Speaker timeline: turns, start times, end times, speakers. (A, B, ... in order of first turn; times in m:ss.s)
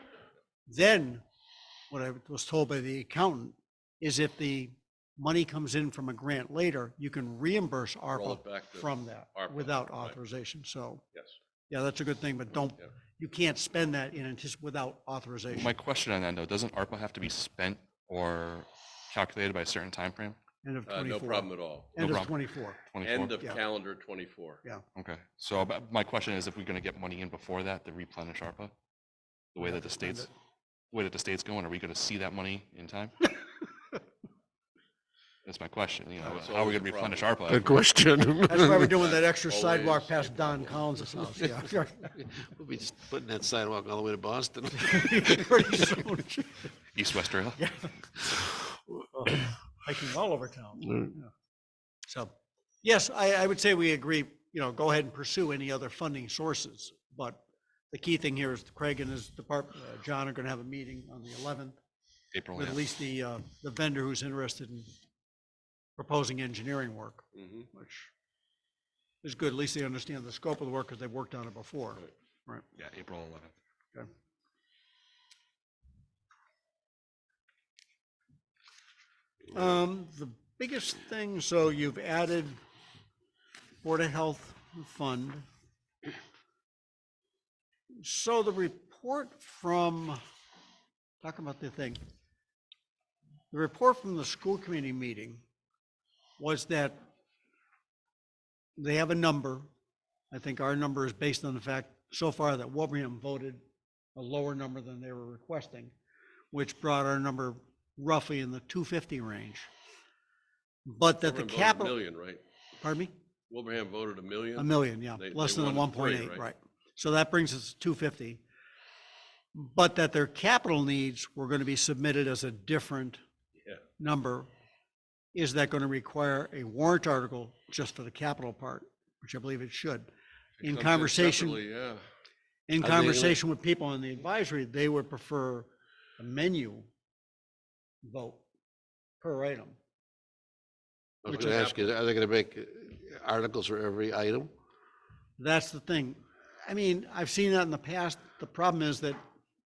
0:00.7-0:01.2 A
0:01.9-0:11.0 A
0:08.1-0:10.2 B
0:11.7-0:15.7 A
0:15.5-0:20.4 C
0:20.6-0:22.8 A
0:20.9-0:22.0 B
0:22.0-0:23.5 C
0:23.0-0:24.6 B
0:25.0-0:28.7 C
0:29.5-0:30.3 C
0:29.8-0:30.3 A
0:30.9-0:33.2 C
0:35.4-0:37.8 C
0:36.2-0:37.3 B
0:37.5-0:38.9 D
0:38.5-0:42.2 A
0:39.0-0:41.0 B
0:42.2-0:45.8 D
0:44.8-0:46.7 A
0:46.9-0:47.6 C
0:47.6-0:47.9 A
0:49.1-0:51.3 A
0:52.1-1:01.8 A
1:02.3-1:02.8 C
1:02.6-1:04.9 A
1:06.0-1:08.1 A
1:07.4-1:07.7 B
1:09.2-1:12.6 A
1:12.8-1:13.6 C
1:19.5-1:22.6 A
1:23.8-1:25.5 A
1:27.9-1:30.2 A
1:31.2-1:32.0 A
1:33.5-1:35.4 A
1:36.4-1:37.0 A
1:38.8-1:39.7 A
1:40.3-1:43.6 A
1:44.2-1:45.9 A
1:46.5-1:49.7 A
1:50.8-1:52.0 A
1:51.2-1:52.4 B
1:52.8-1:53.1 A
1:53.5-1:56.4 B
1:54.6-1:58.4 A
1:59.5-2:03.2 A
2:04.0-2:04.5 A
2:05.3-2:10.1 A
2:10.6-2:12.0 B
2:10.6-2:11.6 A
2:12.7-2:16.9 A
2:12.8-2:13.3 B
2:18.0-2:18.4 A
2:19.2-2:19.8 A
2:21.2-2:24.5 D
2:21.3-2:21.8 B
2:25.4-2:29.2 A